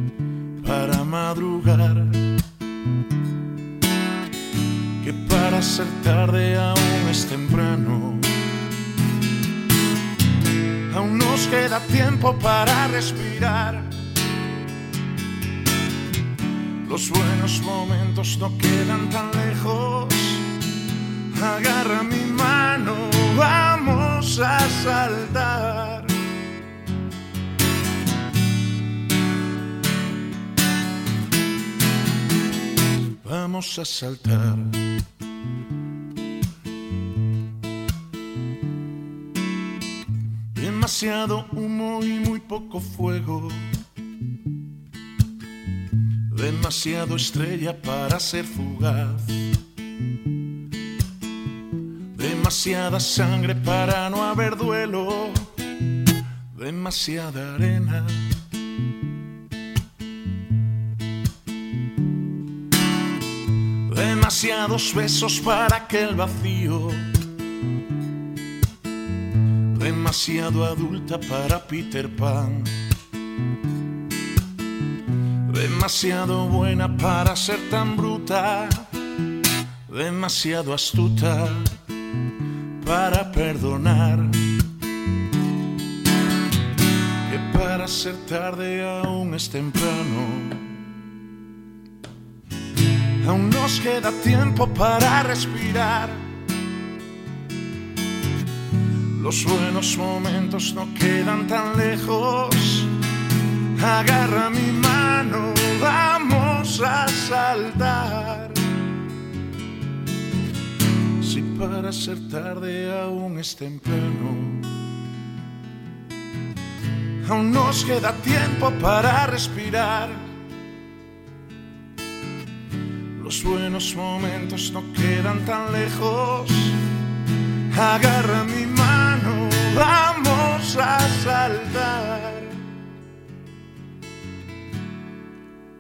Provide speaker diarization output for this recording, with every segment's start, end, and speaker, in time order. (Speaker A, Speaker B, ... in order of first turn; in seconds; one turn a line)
Speaker A: 0.6-2.4
Speaker A: 5.0-8.4
Speaker A: 10.9-13.9
Speaker A: 16.9-20.4
Speaker A: 21.3-26.1
Speaker A: 33.2-34.9
Speaker A: 40.5-43.7
Speaker A: 46.3-49.4
Speaker A: 52.1-55.5
Speaker A: 56.5-58.3
Speaker A: 63.9-67.1
Speaker A: 69.7-72.8
Speaker A: 75.5-78.9
Speaker A: 79.9-81.8
Speaker A: 82.8-84.5
Speaker A: 87.3-90.7
Speaker A: 93.2-96.2
Speaker A: 99.2-102.9
Speaker A: 103.8-108.6
Speaker A: 111.2-114.8
Speaker A: 117.2-120.3
Speaker A: 123.2-126.8
Speaker A: 127.7-132.6